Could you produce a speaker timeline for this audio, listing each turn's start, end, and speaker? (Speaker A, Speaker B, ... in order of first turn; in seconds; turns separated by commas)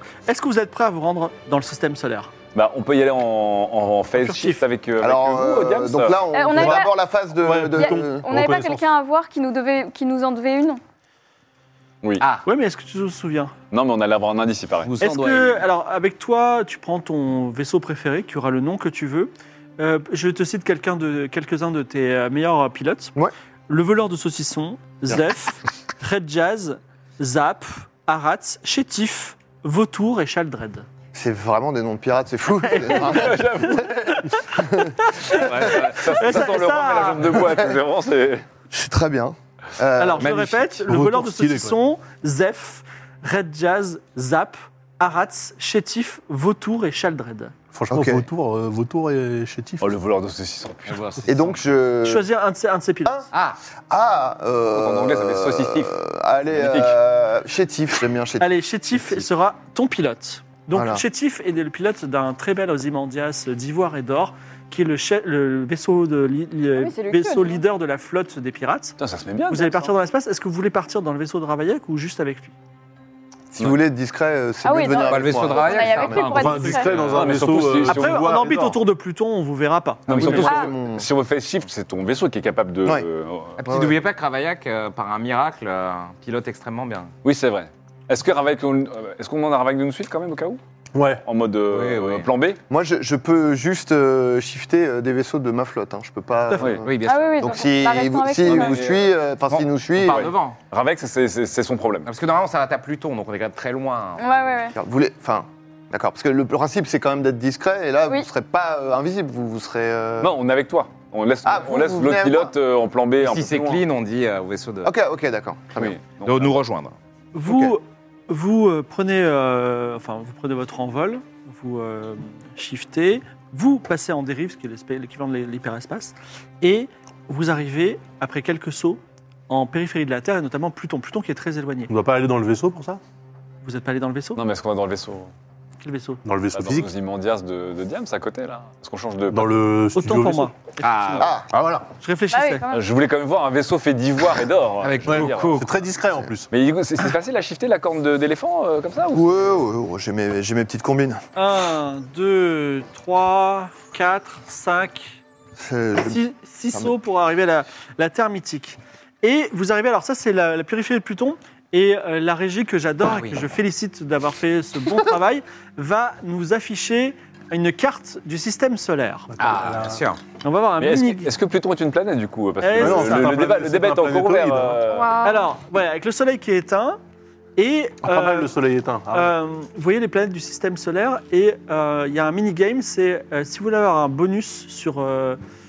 Speaker A: 0.3-2.3, Speaker B: 2.5-6.2, Speaker A: 4.2-4.6, Speaker C: 5.0-8.3, Speaker D: 6.3-7.0, Speaker E: 6.5-6.9, Speaker E: 7.4-8.8, Speaker D: 7.7-10.8, Speaker A: 12.4-13.5, Speaker B: 13.7-14.9, Speaker F: 14.8-15.6, Speaker A: 15.0-23.1, Speaker A: 23.7-30.9, Speaker C: 31.1-35.8, Speaker A: 32.7-33.4, Speaker B: 32.9-34.3, Speaker A: 34.5-37.5, Speaker B: 35.3-38.4, Speaker C: 37.4-37.7, Speaker C: 38.7-40.5, Speaker A: 40.0-47.5, Speaker F: 40.2-40.5, Speaker E: 40.8-41.8, Speaker E: 47.7-49.9, Speaker C: 47.9-48.2, Speaker B: 49.8-51.1, Speaker F: 50.9-51.6, Speaker C: 51.3-52.3, Speaker A: 52.0-53.1, Speaker F: 53.3-53.6, Speaker C: 53.9-58.5, Speaker B: 54.7-55.9, Speaker B: 56.5-57.0, Speaker A: 58.4-72.5, Speaker C: 60.7-61.0, Speaker D: 66.8-67.6, Speaker B: 69.0-69.9, Speaker C: 73.5-76.5, Speaker B: 73.5-73.8, Speaker D: 74.6-77.0, Speaker F: 75.0-77.3, Speaker E: 76.3-78.8, Speaker B: 77.0-78.5, Speaker A: 77.8-80.6, Speaker B: 80.1-83.6, Speaker C: 80.1-81.1, Speaker D: 80.4-80.7, Speaker F: 83.6-87.1, Speaker C: 83.7-84.0, Speaker B: 87.2-90.6, Speaker E: 90.9-91.2, Speaker B: 91.2-92.6, Speaker F: 91.7-92.3, Speaker C: 92.7-100.3, Speaker A: 96.5-96.8, Speaker B: 96.5-96.8, Speaker F: 96.8-97.8, Speaker D: 97.0-98.8, Speaker B: 98.5-99.0, Speaker F: 98.5-98.8, Speaker F: 99.5-100.6, Speaker B: 100.7-102.1, Speaker F: 102.0-104.2, Speaker D: 104.2-104.8, Speaker C: 104.8-110.4, Speaker B: 110.2-113.8, Speaker C: 111.4-112.5, Speaker F: 113.2-114.9, Speaker C: 114.8-116.0, Speaker B: 115.8-116.5, Speaker F: 116.2-116.9, Speaker A: 117.3-131.9, Speaker C: 117.5-117.8, Speaker E: 131.9-133.0, Speaker A: 133.6-134.4, Speaker B: 134.3-135.3, Speaker A: 135.8-136.2, Speaker E: 136.2-136.9, Speaker B: 136.5-139.6, Speaker E: 139.3-140.5, Speaker A: 139.9-141.3, Speaker F: 140.8-141.4, Speaker C: 141.2-141.5, Speaker E: 141.5-141.8, Speaker A: 142.0-142.7, Speaker D: 142.3-142.8, Speaker B: 142.7-145.7, Speaker F: 144.8-145.7, Speaker E: 145.0-146.5, Speaker B: 146.5-149.4, Speaker C: 149.1-151.2, Speaker A: 151.3-155.2, Speaker C: 155.6-156.2, Speaker A: 156.0-169.3, Speaker F: 163.1-163.4, Speaker E: 169.3-170.0, Speaker F: 169.4-170.2, Speaker A: 170.4-171.3, Speaker B: 170.8-175.2, Speaker A: 172.6-173.3, Speaker E: 172.8-174.8, Speaker D: 174.8-175.5, Speaker A: 175.2-177.0, Speaker A: 177.6-178.5, Speaker E: 178.0-179.3, Speaker A: 179.1-185.4